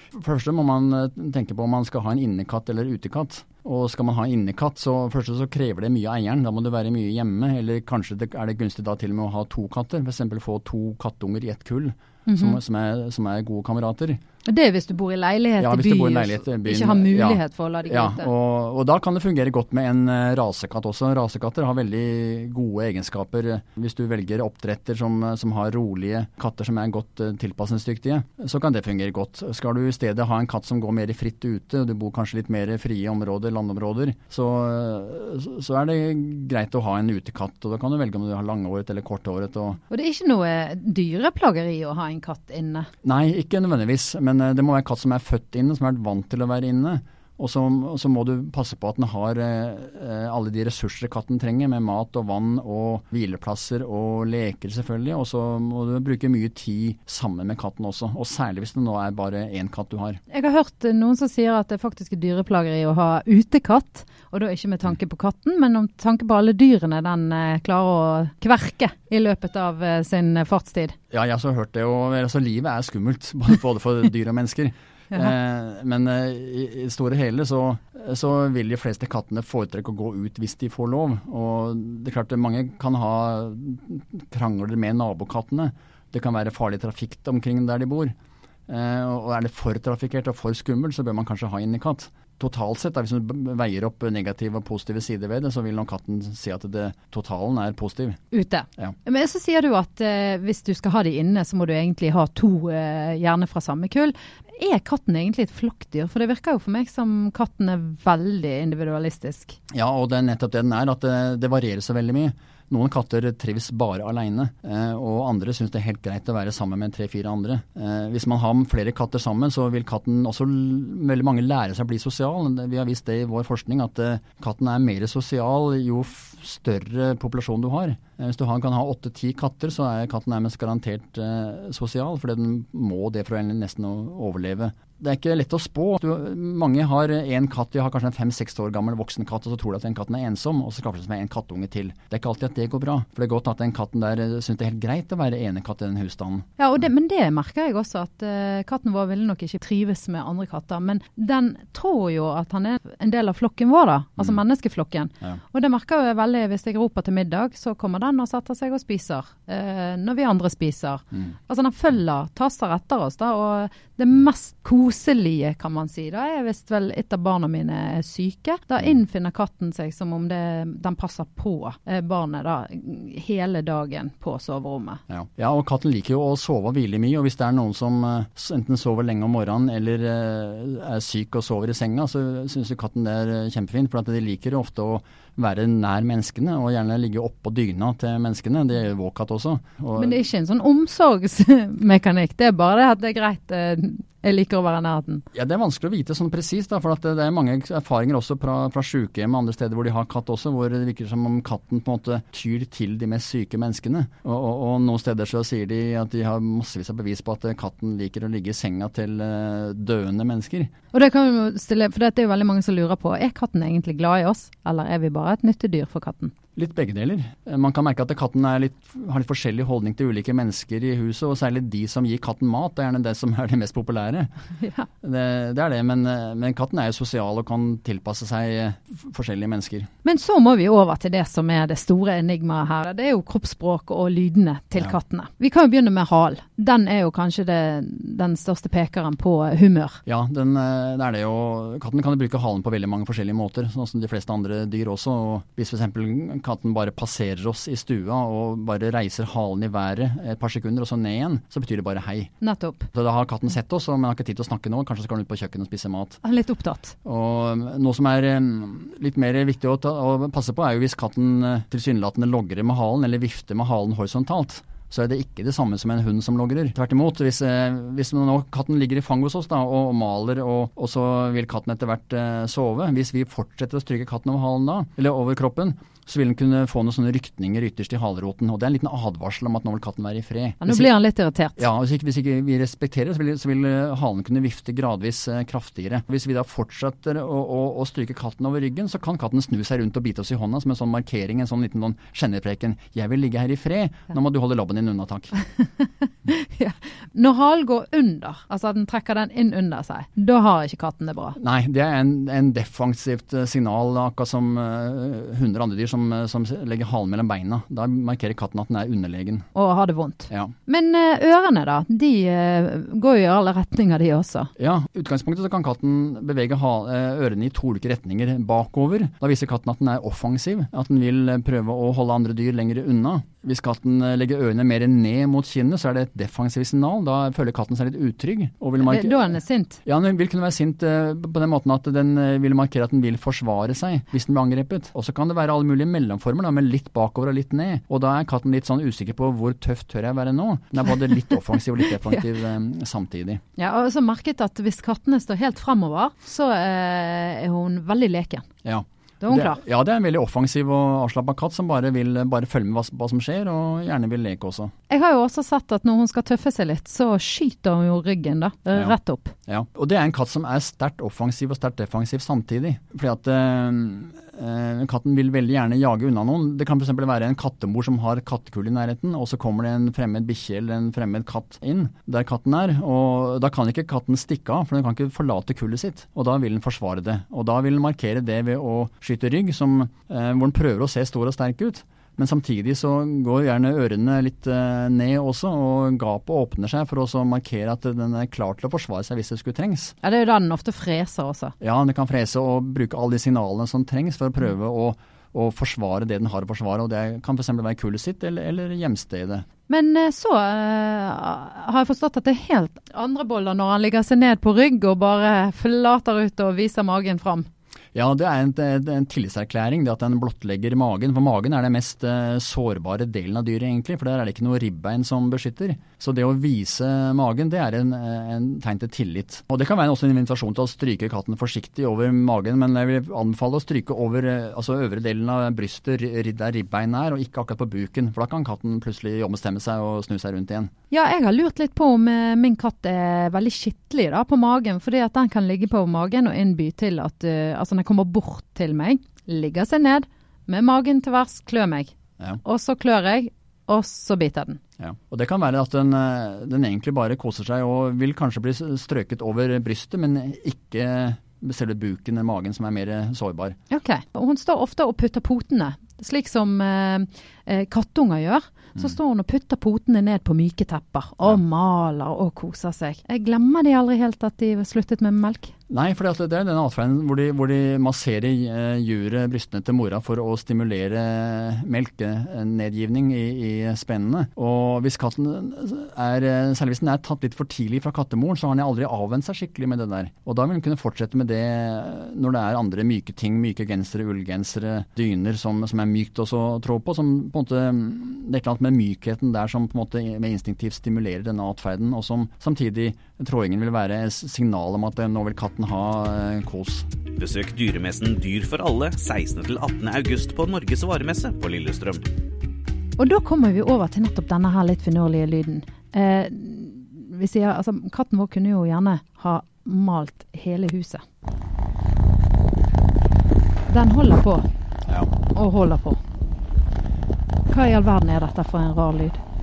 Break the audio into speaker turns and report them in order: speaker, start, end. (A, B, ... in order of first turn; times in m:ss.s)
0:00.1-0:14.2 A
0:12.2-0:12.6 B
0:14.4-0:18.3 B
0:15.6-0:39.8 A
0:39.9-0:42.9 B
0:43.0-1:00.2 A
1:00.3-1:11.0 B
1:11.1-1:28.1 A
1:28.7-1:38.2 A
1:38.3-1:49.6 B
1:49.7-2:26.5 A
2:26.6-2:55.0 B
2:55.1-3:10.2 A
3:10.0-3:15.2 B
3:15.3-3:30.7 A
3:30.9-3:36.3 B
3:36.6-3:44.3 A
3:44.6-3:44.9 B
3:45.0-3:49.9 A
3:50.0-4:00.0 B
4:00.0-4:12.3 A
4:12.4-4:12.9 B
4:12.9-4:16.2 A
4:16.2-4:17.0 B
4:17.0-4:40.9 A
4:40.6-4:41.6 B
4:41.6-4:55.3 A
4:55.6-5:01.4 B
5:01.4-5:09.5 A
5:09.5-5:14.5 B
5:14.6-5:43.4 A
5:28.8-5:29.8 B
5:43.6-5:48.5 B
5:48.6-5:54.7 A
5:49.2-5:49.6 B
5:54.9-5:59.3 B
5:59.5-6:30.0 A
6:30.0-6:31.5 B
6:31.6-6:39.4 A
6:39.7-6:47.5 B
6:47.9-7:10.7 A
7:10.9-7:24.6 B
7:24.8-7:33.6 A
7:33.7-7:45.5 B
7:45.7-8:16.9 A
8:17.2-8:22.0 C
8:23.0-8:31.0 B
8:33.7-8:34.4 B
8:34.9-8:35.1 A
8:35.3-8:36.0 B
8:37.5-8:39.2 B